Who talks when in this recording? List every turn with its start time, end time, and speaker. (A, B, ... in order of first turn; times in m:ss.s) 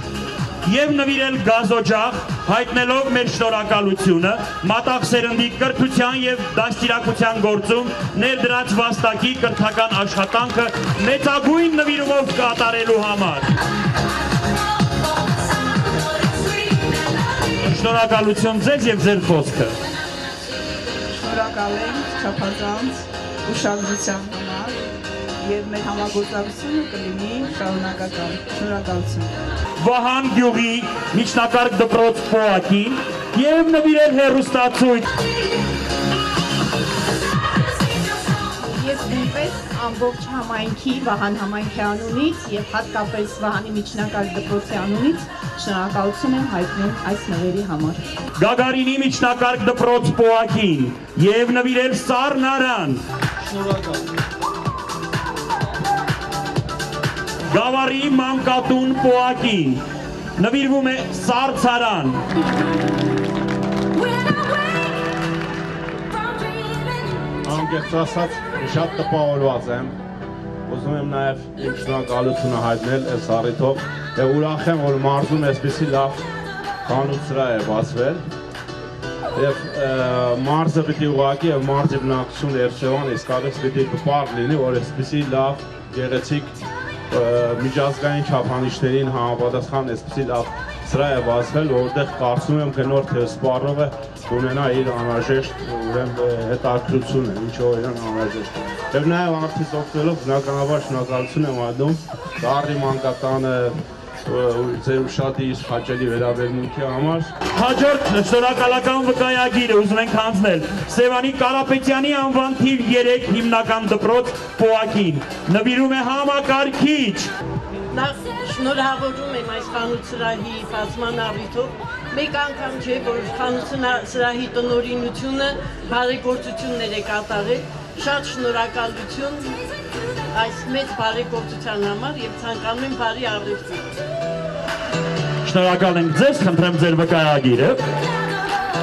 0:00.6-0:13.5 A
0:17.6-0:19.8 A
0:21.2-0:24.7 B
0:25.4-0:29.3 B
0:29.8-0:35.1 A
0:38.8-0:48.0 C
0:48.4-0:53.0 A
0:57.5-0:59.8 A
1:00.4-1:02.2 A
1:07.4-1:10.0 D
1:10.7-1:16.2 D
1:16.8-1:18.2 D
1:19.4-1:26.6 D
1:27.1-1:47.3 D
1:47.5-1:57.3 A
1:57.9-2:09.5 E
2:10.3-2:13.9 E
2:15.4-2:17.8 A